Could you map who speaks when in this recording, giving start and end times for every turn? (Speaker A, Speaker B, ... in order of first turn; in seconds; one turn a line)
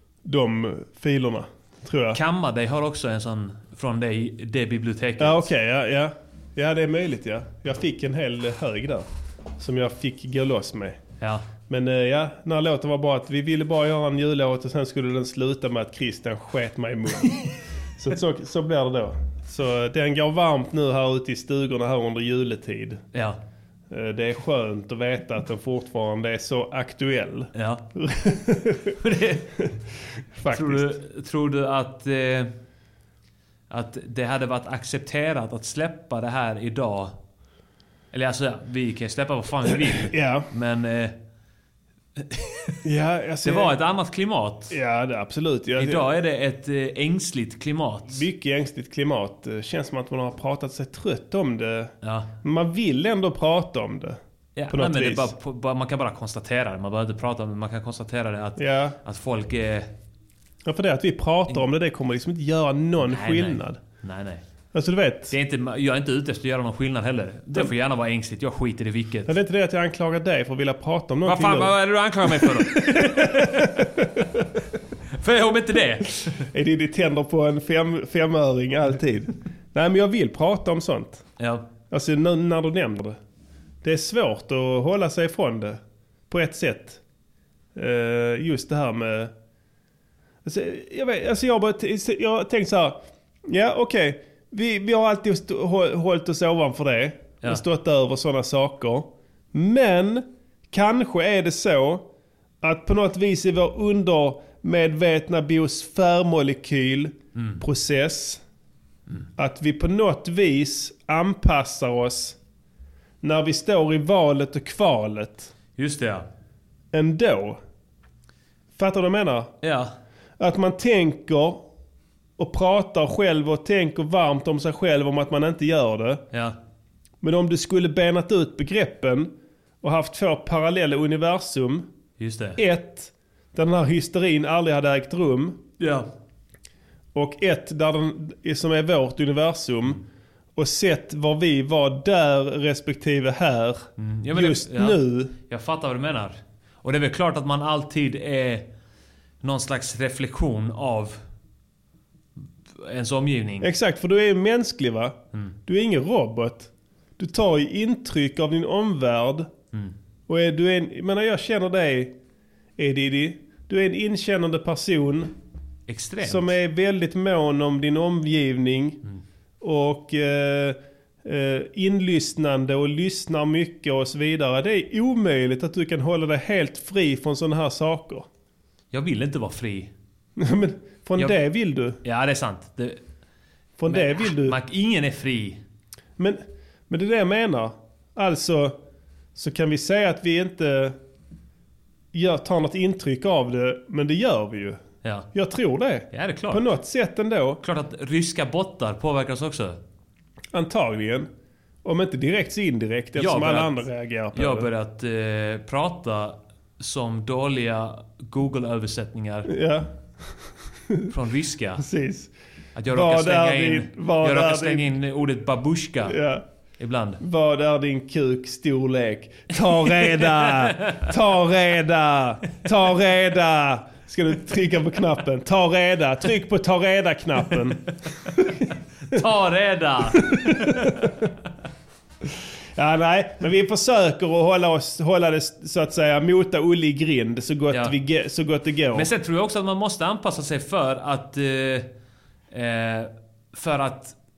Speaker A: 0.2-2.2
Speaker B: 2.1-5.5
Speaker A: 5.2-9.1
Speaker A: 9.6-11.0
Speaker A: 11.7-23.0
Speaker B: 23.1-23.4
Speaker A: 23.9-28.9
Speaker B: 27.5-27.8
Speaker B: 29.0-29.5
Speaker A: 30.4-30.9
Speaker B: 30.5-32.5
Speaker B: 33.7-37.1
Speaker B: 38.1-41.1
Speaker A: 39.9-40.5
Speaker B: 42.2-42.7
Speaker A: 42.8-43.7
Speaker B: 43.4-44.7
Speaker A: 44.7-46.0
Speaker B: 45.8-48.2
Speaker A: 48.1-54.2
Speaker B: 52.0-52.3
Speaker B: 54.5-59.9
Speaker A: 54.7-55.3
Speaker A: 58.6-59.0
Speaker A: 60.6-63.8
Speaker B: 63.0-64.4
Speaker A: 64.7-65.3
Speaker B: 65.3-69.3
Speaker A: 69.2-71.7
Speaker B: 71.2-73.8
Speaker A: 72.3-74.5
Speaker B: 75.2-76.5
Speaker A: 76.5-81.2
Speaker B: 81.4-81.7
Speaker A: 81.9-83.2
Speaker A: 83.8-87.0
Speaker A: 87.7-89.3
Speaker A: 90.4-102.1
Speaker A: 102.6-108.4
Speaker B: 107.3-107.6
Speaker A: 109.4-112.4
Speaker A: 113.2-115.5
Speaker B: 115.8-116.3
Speaker A: 116.9-117.6
Speaker A: 118.8-119.5
Speaker B: 119.6-119.9
Speaker A: 120.4-121.7
Speaker A: 122.4-126.2
Speaker A: 127.2-131.9
Speaker B: 132.2-132.6
Speaker A: 132.6-135.6
Speaker B: 135.8-136.1
Speaker A: 137.1-140.0
Speaker A: 140.6-145.3
Speaker B: 144.0-148.7
Speaker B: 149.4-151.2
Speaker B: 152.8-153.7
Speaker A: 153.6-159.5
Speaker A: 160.3-162.2
Speaker A: 162.8-165.3
Speaker B: 165.9-166.6
Speaker A: 166.2-169.0
Speaker A: 169.6-178.3
Speaker B: 178.9-179.9
Speaker A: 180.4-182.0
Speaker B: 182.0-183.0
Speaker A: 183.8-184.6
Speaker B: 183.9-185.6
Speaker A: 186.2-188.8
Speaker A: 189.3-191.0
Speaker A: 192.1-194.8
Speaker A: 195.3-197.6
Speaker B: 196.1-196.7
Speaker B: 197.6-199.8
Speaker A: 200.5-201.3
Speaker A: 201.8-204.7
Speaker B: 203.2-209.5
Speaker A: 209.5-210.3
Speaker B: 211.1-211.8
Speaker A: 211.8-212.3
Speaker B: 212.7-216.2
Speaker A: 212.9-214.9
Speaker A: 216.0-216.4
Speaker B: 216.8-217.2
Speaker A: 217.2-228.5
Speaker B: 220.3-220.9
Speaker B: 229.1-231.0
Speaker A: 230.2-231.1
Speaker A: 232.8-239.1
Speaker B: 238.9-241.9
Speaker B: 242.5-244.1